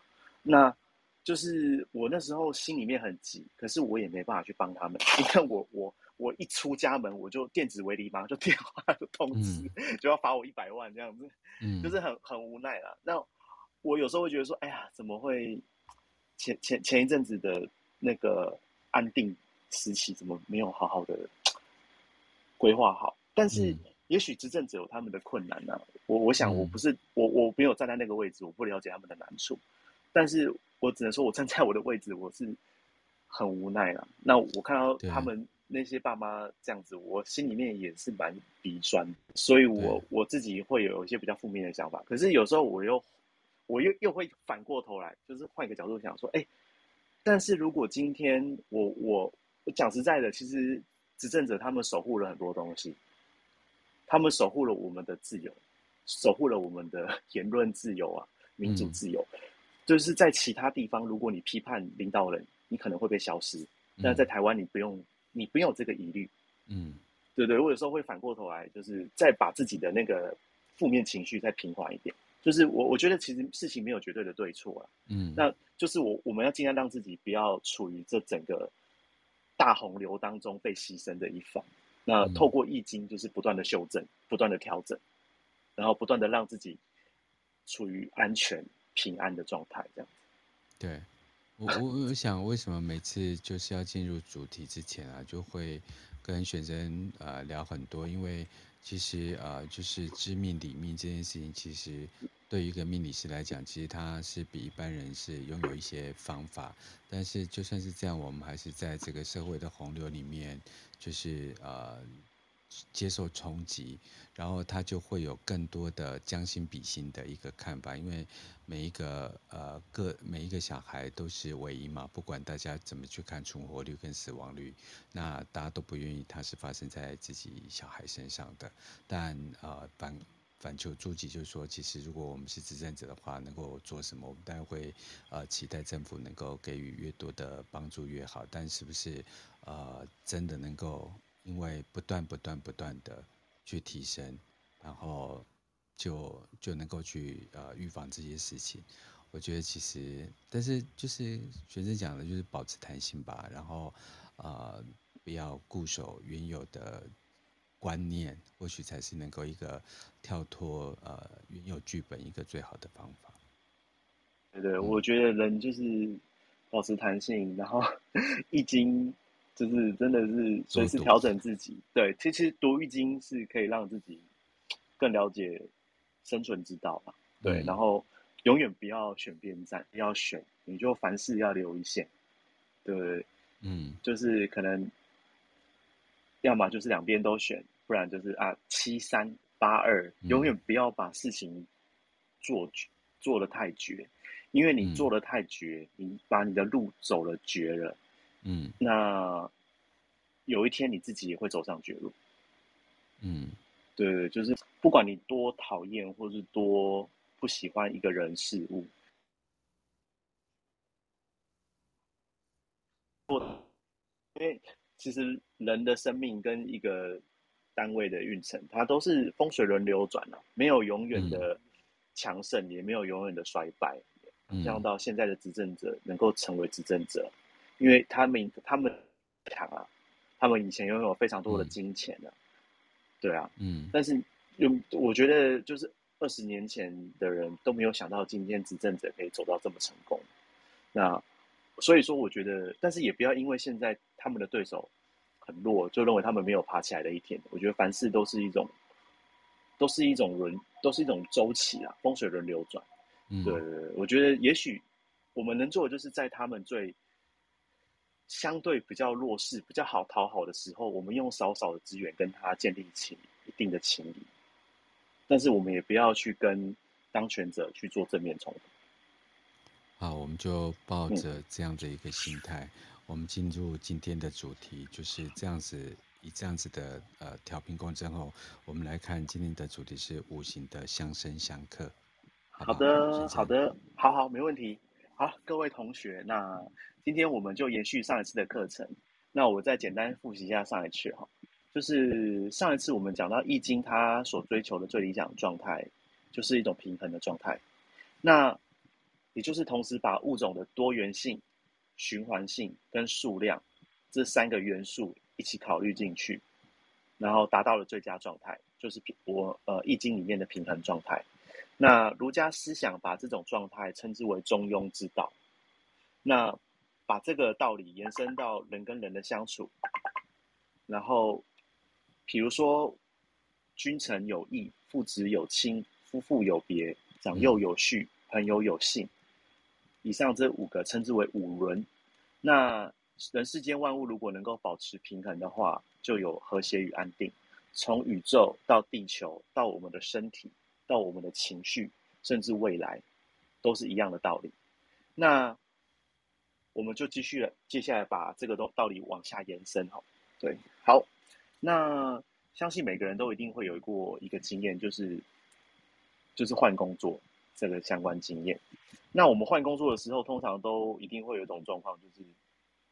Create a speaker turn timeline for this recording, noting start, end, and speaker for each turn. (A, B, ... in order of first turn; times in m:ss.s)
0:00.4-0:13.3 A
0:09.3-0:09.7 B
0:11.6-0:12.0 B
0:13.8-0:15.6 A
0:16.4-0:21.3 A
0:22.6-0:29.6 A
0:23.5-0:23.8 B
0:26.4-0:26.8 B
0:30.1-0:32.6 A
0:33.3-0:43.0 A
0:35.0-0:35.3 B
0:39.8-0:40.0 B
0:43.7-0:46.5 A
0:47.2-0:53.0 A
0:54.1-0:59.3 A
0:58.6-0:59.0 B
0:59.9-1:06.3 A
1:04.0-1:04.3 B
1:06.7-1:07.0 B
1:07.4-1:18.7 A
1:15.1-1:15.4 B
1:19.6-1:25.0 A
1:22.2-1:22.5 B
1:25.8-1:26.8 A
1:27.7-1:30.1 A
1:30.8-1:52.1 B
1:52.7-2:37.1 B
2:37.8-2:43.4 B
2:44.5-2:46.2 A
2:46.7-2:54.2 A
2:50.7-2:51.2 B
2:55.0-2:55.7 A
2:56.2-3:02.1 A
2:57.4-2:57.8 B
3:02.8-3:03.3 A
3:03.6-3:04.0 B
3:04.0-3:04.9 A
3:06.4-3:11.7 A
3:10.2-3:10.5 B
3:12.4-3:18.0 A
3:14.8-3:15.1 B
3:18.4-3:18.8 B
3:18.8-3:19.5 A
3:20.5-3:22.2 A
3:23.2-3:23.6 B
3:24.0-3:28.9 A
3:33.3-3:33.6 A
3:34.4-3:37.2 A
3:37.8-3:41.6 A
3:41.2-3:41.4 B
3:42.2-3:49.9 A
3:44.5-3:44.8 B
3:50.4-3:52.4 A
3:53.2-4:00.3 A
3:53.6-3:53.9 B
4:00.9-4:01.2 A
4:01.8-4:04.9 A
4:05.4-4:08.7 A
4:09.8-4:12.8 A
4:13.3-4:13.6 B
4:13.4-4:14.8 A
4:15.4-4:17.0 A
4:18.3-4:24.3 A
4:25.3-4:28.7 A
4:30.0-4:42.0 B
4:42.6-4:43.5 B
4:42.6-4:57.6 A
4:58.2-4:58.6 A
4:59.4-5:01.4 A
5:02.0-5:06.4 A
5:07.2-5:11.2 A
5:11.8-5:15.3 A
5:16.2-5:19.7 A
5:20.9-5:21.5 A
5:22.3-5:23.0 A
5:23.8-5:29.1 A
5:30.0-5:31.9 A
5:32.4-5:43.0 A
5:43.6-5:44.5 A
5:45.2-5:45.6 A
5:46.8-5:51.1 A
5:51.6-5:55.2 A
5:56.4-5:58.6 A
5:59.1-6:02.3 A